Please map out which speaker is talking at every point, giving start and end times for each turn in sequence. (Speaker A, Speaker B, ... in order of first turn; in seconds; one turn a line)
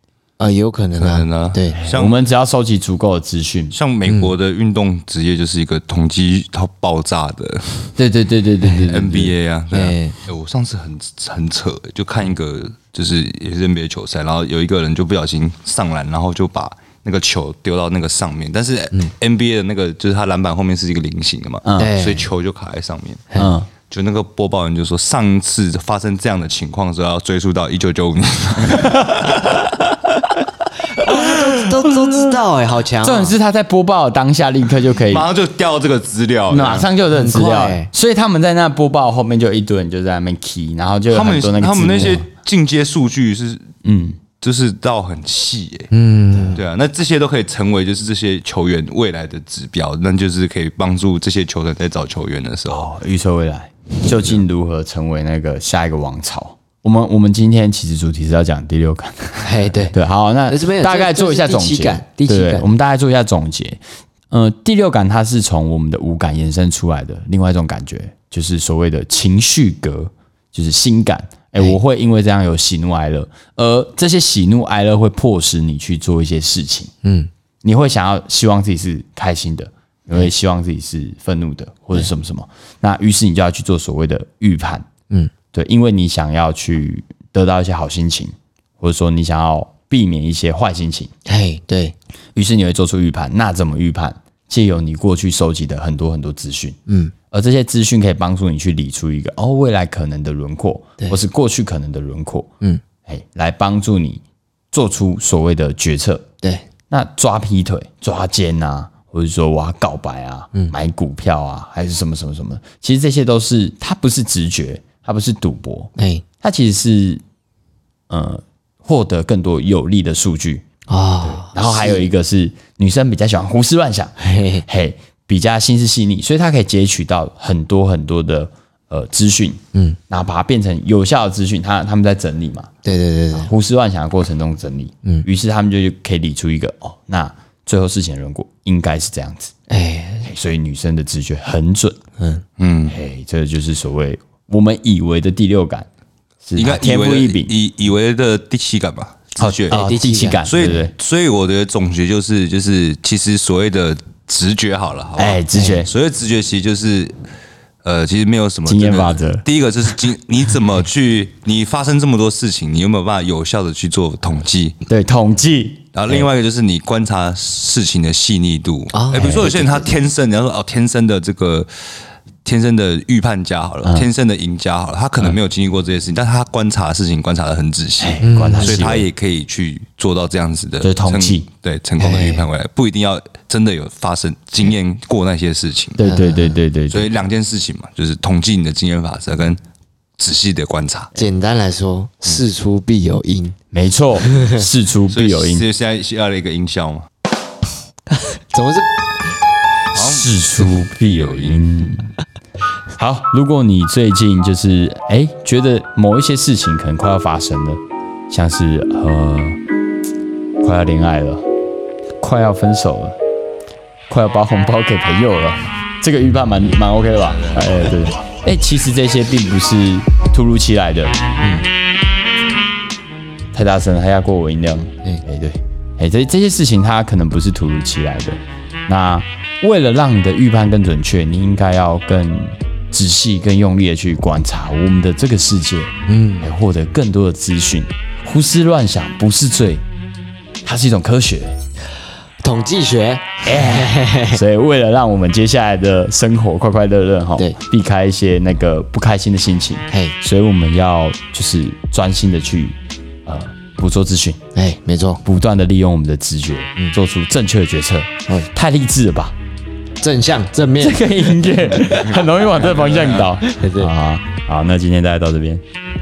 Speaker A: 0.4-1.8
Speaker B: 1.0-2.2
Speaker C: 1.8-3.7
Speaker B: 3.7-7.9
Speaker A: 4.1-4.3
Speaker C: 8.0-9.3
Speaker B: 8.9-29.9
Speaker A: 9.7-10.2
Speaker C: 21.6-21.9
Speaker A: 21.8-22.3
Speaker C: 23.4-23.7
Speaker C: 28.7-29.2
Speaker A: 30.9-33.4
Speaker C: 33.0-35.3
Speaker B: 35.1-36.9
Speaker C: 36.5-42.3
Speaker A: 37.1-37.9
Speaker B: 41.1-43.7
Speaker C: 43.8-44.2
Speaker B: 44.4-45.9
Speaker A: 45.9-46.6
Speaker B: 46.5-52.9
Speaker C: 52.7-76.9
Speaker A: 59.4-60.0
Speaker A: 60.5-62.7
Speaker A: 77.0-77.3
Speaker C: 77.6-84.9
Speaker C: 85.5-91.1
Speaker A: 91.2-91.9
Speaker C: 92.3-96.8
Speaker A: 96.9-97.1
Speaker C: 97.3-102.5
Speaker C: 103.0-106.2
Speaker C: 106.9-117.2
Speaker A: 116.0-116.2
Speaker C: 118.1-120.6
Speaker A: 120.9-122.1
Speaker C: 121.2-124.1
Speaker A: 124.2-124.7
Speaker C: 124.7-132.7
Speaker A: 132.8-133.5
Speaker C: 133.3-139.5
Speaker A: 139.7-140.3
Speaker C: 140.2-142.0
Speaker A: 142.2-142.4
Speaker B: 142.6-143.0
Speaker C: 142.9-145.9
Speaker C: 146.4-147.5
Speaker B: 146.6-149.8
Speaker C: 149.4-150.9
Speaker A: 149.7-150.4
Speaker B: 150.4-157.1
Speaker C: 155.2-155.9
Speaker A: 155.5-155.8
Speaker B: 157.8-164.8
Speaker C: 158.7-159.4
Speaker C: 164.8-166.3
Speaker B: 165.9-171.7
Speaker A: 168.9-169.9
Speaker C: 169.2-169.4
Speaker B: 172.4-186.0
Speaker C: 178.0-179.1
Speaker A: 178.2-178.8
Speaker C: 180.8-181.5
Speaker A: 182.0-182.4
Speaker C: 186.0-187.1
Speaker A: 186.0-186.6
Speaker B: 186.9-189.6
Speaker B: 190.2-191.1
Speaker A: 191.1-193.5
Speaker C: 193.7-195.6
Speaker A: 194.3-194.6
Speaker B: 195.1-197.1
Speaker A: 198.1-198.9
Speaker B: 199.9-200.3
Speaker C: 199.9-202.1
Speaker B: 201.0-201.6
Speaker C: 203.0-209.6
Speaker C: 210.6-211.5
Speaker C: 212.2-213.2
Speaker C: 214.1-221.2
Speaker B: 217.2-217.7
Speaker C: 223.5-239.8
Speaker A: 236.1-236.5
Speaker C: 240.6-241.6
Speaker A: 242.4-244.4
Speaker C: 243.4-254.4
Speaker A: 249.9-250.1
Speaker A: 254.5-255.2
Speaker C: 255.2-259.4
Speaker A: 260.0-261.1
Speaker C: 260.8-265.6
Speaker B: 262.1-263.3
Speaker A: 263.4-263.9